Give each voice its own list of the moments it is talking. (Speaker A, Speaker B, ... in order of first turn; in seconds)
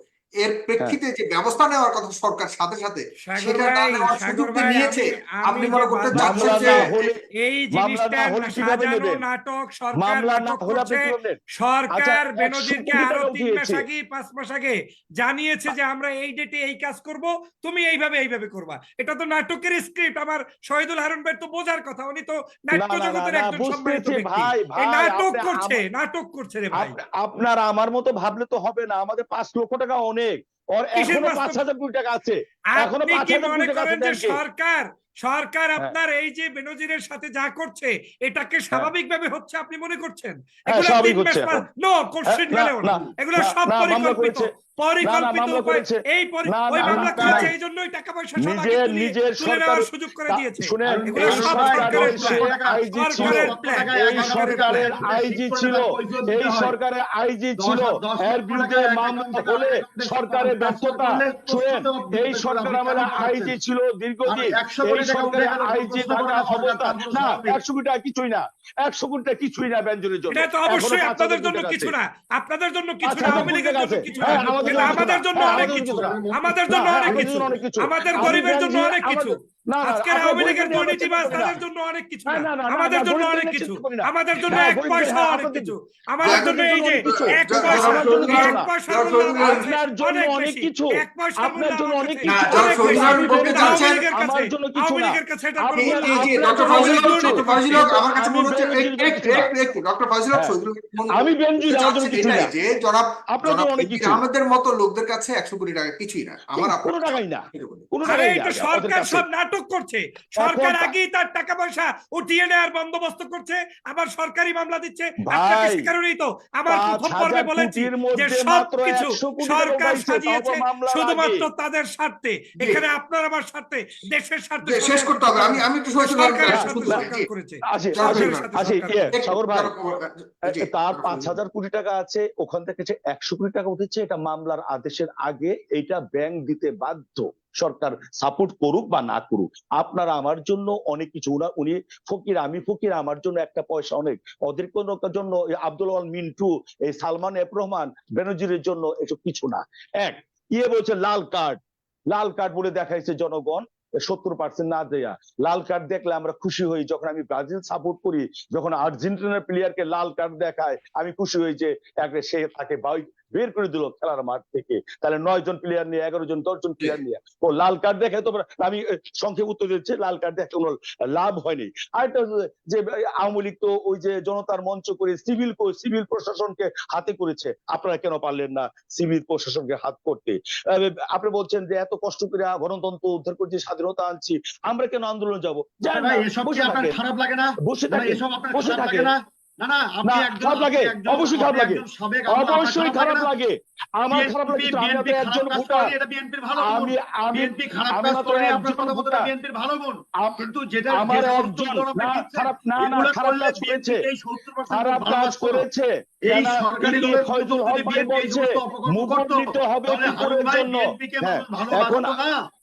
Speaker A: 0.4-6.9, 86.3-89.7, 92.3-94.0, 95.7-107.9, 124.6-127.2, 127.9-128.5, 129.1-131.4
Speaker B: 3.2-6.9, 7.4-27.0, 30.9-31.6, 32.8-54.9, 70.3-97.9, 108.0-129.1
Speaker C: 6.1-7.2, 7.8-9.2, 10.0-11.4, 11.9-13.8, 22.8-25.8, 26.8-34.4, 40.7-41.7, 42.3-44.5, 45.0-47.5, 48.4-71.9, 73.0-76.2, 76.7-81.6, 82.3-85.7, 86.2-88.7, 89.4-99.5, 101.2-102.5, 103.3-104.2, 106.6-109.2, 110.4-110.9, 115.3-115.9, 116.7-121.5, 126.5-127.1, 127.7-129.7, 130.5-151.6, 152.1-187.0, 187.6-189.1, 190.1-195.9, 196.6-199.3, 200.2-204.1, 204.7-212.2
Speaker D: 46.8-47.5, 50.8-56.8, 57.6-63.5, 64.2-67.6, 73.2-73.5, 74.1-78.4, 80.7-81.5, 185.9-193.3, 194.1-205.7, 206.3-212.4